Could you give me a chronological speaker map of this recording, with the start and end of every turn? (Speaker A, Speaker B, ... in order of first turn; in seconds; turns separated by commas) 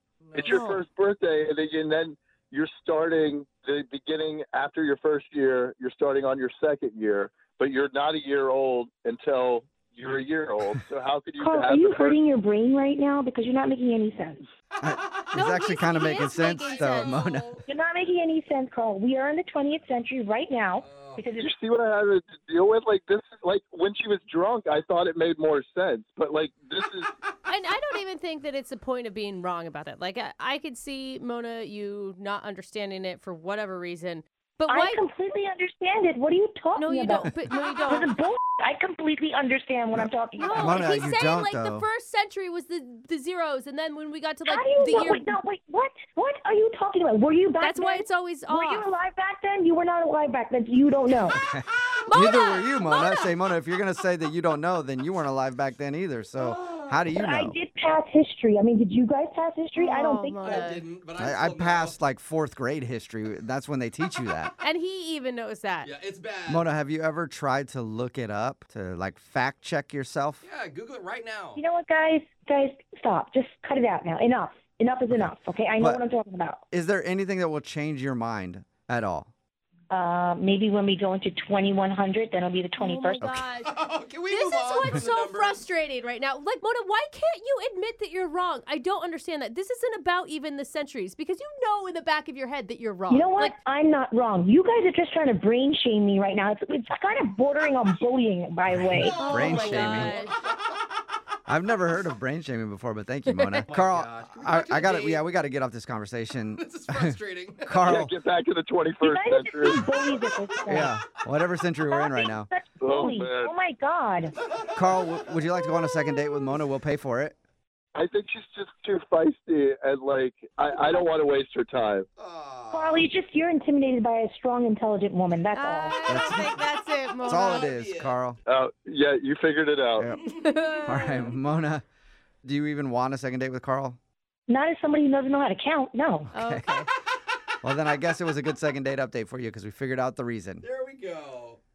Speaker A: 0.2-0.8, Speaker B: 0.3-12.2, Speaker C: 0.5-0.8, Speaker D: 11.4-14.4, Speaker E: 14.8-17.6, Speaker A: 14.8-17.6, Speaker C: 15.3-17.2, Speaker D: 17.7-21.5, Speaker A: 20.8-21.3, Speaker B: 21.4-27.1, Speaker C: 27.4-35.0, Speaker D: 34.7-37.3, Speaker C: 36.8-38.1, Speaker D: 37.9-40.9, Speaker E: 39.9-41.9, Speaker C: 40.4-45.3, Speaker D: 44.5-51.4, Speaker C: 47.6-48.9, Speaker E: 51.3-57.6, Speaker C: 52.0-53.3, Speaker A: 56.4-57.0, Speaker D: 57.1-60.7, Speaker C: 59.8-60.8, Speaker A: 60.4-62.0, Speaker E: 61.2-64.5, Speaker C: 64.6-65.9, Speaker A: 65.8-66.7, Speaker E: 66.5-70.4, Speaker A: 70.4-71.6, Speaker D: 71.6-76.6, Speaker E: 75.1-76.0, Speaker E: 76.7-79.3, Speaker D: 79.9-83.2, Speaker C: 82.8-83.7, Speaker E: 83.2-83.5, Speaker A: 83.6-85.7, Speaker C: 84.3-93.6, Speaker D: 93.1-99.5, Speaker E: 98.8-100.2, Speaker A: 99.0-100.8, Speaker C: 99.0-100.4, Speaker E: 101.5-108.1, Speaker C: 103.3-103.6, Speaker A: 103.6-105.3, Speaker A: 106.5-108.0, Speaker B: 107.9-109.9, Speaker D: 109.0-110.9, Speaker E: 110.7-112.5, Speaker D: 111.9-114.3, Speaker B: 112.8-113.5, Speaker A: 114.4-115.4, Speaker E: 114.7-117.4, Speaker B: 118.0-122.1, Speaker A: 122.2-123.1, Speaker D: 122.7-126.0, Speaker C: 125.5-127.6, Speaker E: 126.1-126.6, Speaker E: 127.3-128.4, Speaker A: 127.3-128.2, Speaker B: 128.5-130.1, Speaker C: 130.4-131.3, Speaker E: 130.8-131.8, Speaker E: 132.4-134.0, Speaker D: 134.5-136.3, Speaker E: 136.3-136.7, Speaker C: 136.3-136.9, Speaker A: 137.3-137.5, Speaker E: 137.6-140.7, Speaker A: 140.6-141.6